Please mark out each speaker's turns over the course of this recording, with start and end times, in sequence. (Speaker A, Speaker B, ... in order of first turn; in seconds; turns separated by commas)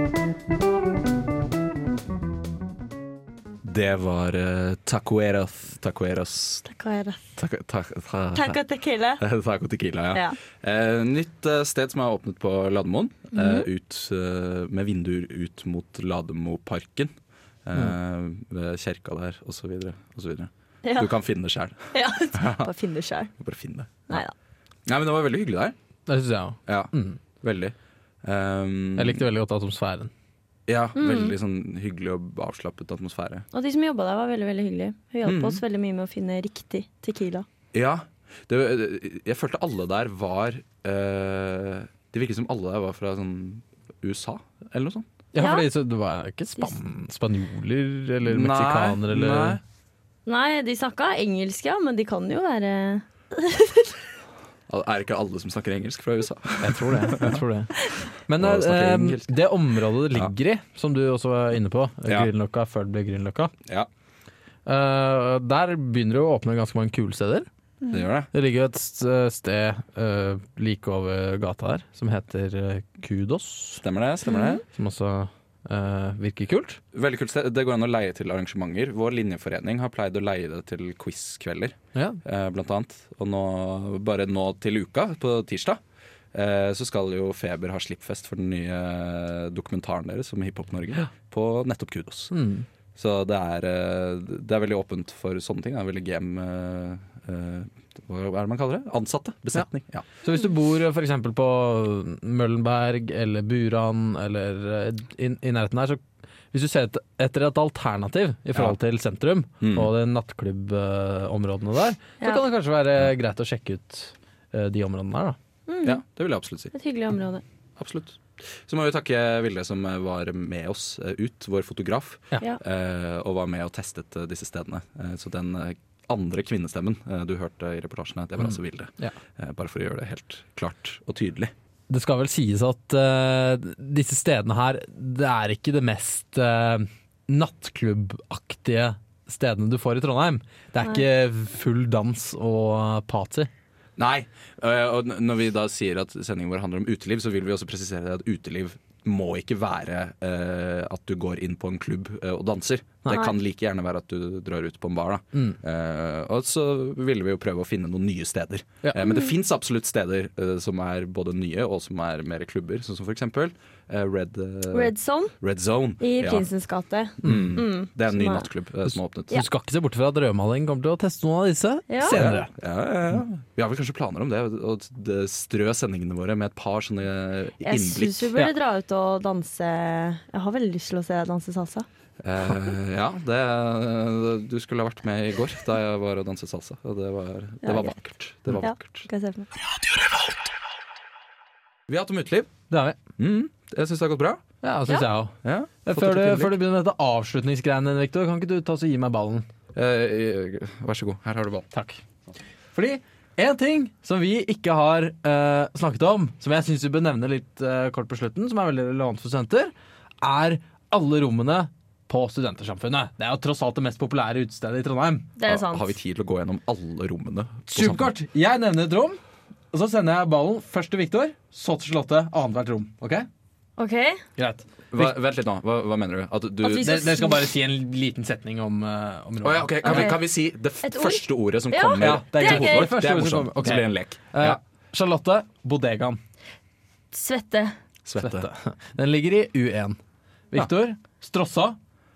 Speaker A: 3.6-6.6, Speaker B: 6.7-7.2, Speaker A: 7.4-8.6, Speaker B: 8.3-9.2, Speaker A: 9.2-17.1, Speaker B: 13.3-13.7, Speaker A: 17.6-22.7, Speaker B: 20.8-21.1, Speaker B: 21.9-23.3, Speaker A: 23.4-24.2, Speaker A: 24.9-25.8, Speaker C: 26.1-27.2, Speaker A: 26.7-29.2, Speaker C: 29.0-30.1, Speaker A: 30.7-33.5, Speaker B: 30.9-31.3, Speaker B: 33.5-37.4, Speaker A: 35.2-35.6, Speaker A: 37.7-45.0, Speaker C: 45.3-49.6, Speaker B: 45.4-45.6, Speaker A: 48.2-49.6, Speaker B: 50.2-53.9, Speaker A: 54.7-57.4, Speaker C: 56.6-63.5, Speaker A: 58.4-59.5, Speaker C: 64.7-67.5, Speaker A: 67.9-68.3, Speaker C: 68.3-73.8, Speaker A: 73.8-74.6, Speaker C: 74.6-76.8, Speaker A: 76.9-85.8, Speaker A: 86.3-92.3, Speaker C: 92.3-92.6, Speaker A: 93.0-100.1, Speaker C: 100.2-115.4, Speaker A: 109.6-109.9, Speaker B: 115.7-116.0, Speaker A: 115.8-116.7, Speaker B: 116.7-117.4, Speaker A: 117.8-131.5, Speaker C: 131.9-143.5, Speaker A: 144.0-166.5, Speaker C: 153.0-153.3, Speaker C: 155.3-155.6, Speaker C: 158.8-159.1, Speaker B: 159.1-159.3, Speaker B: 164.7-165.3, Speaker B: 166.0-168.5, Speaker A: 167.2-169.4, Speaker C: 167.2-167.6, Speaker C: 168.9-172.5, Speaker B: 171.9-172.2, Speaker A: 172.0-178.5, Speaker B: 177.6-181.8, Speaker A: 182.2-189.1, Speaker B: 187.6-188.0, Speaker B: 188.5-189.5, Speaker A: 191.9-192.5, Speaker C: 192.7-193.0, Speaker A: 193.2-194.4, Speaker C: 194.6-199.5, Speaker A: 195.4-196.6, Speaker A: 199.7-201.7, Speaker C: 201.7-202.0, Speaker C: 202.7-215.3, Speaker B: 215.4-215.8, Speaker A: 215.4-218.1, Speaker C: 217.7-219.2, Speaker C: 219.7-223.3, Speaker B: 223.8-224.2, Speaker C: 224.4-225.1, Speaker A: 224.9-227.0, Speaker B: 226.6-227.4, Speaker C: 226.7-230.1, Speaker A: 229.4-234.6, Speaker B: 229.8-230.2, Speaker B: 230.8-233.0, Speaker C: 232.0-236.2, Speaker B: 237.1-237.7, Speaker A: 238.0-238.5, Speaker C: 238.2-240.0, Speaker C: 240.5-241.8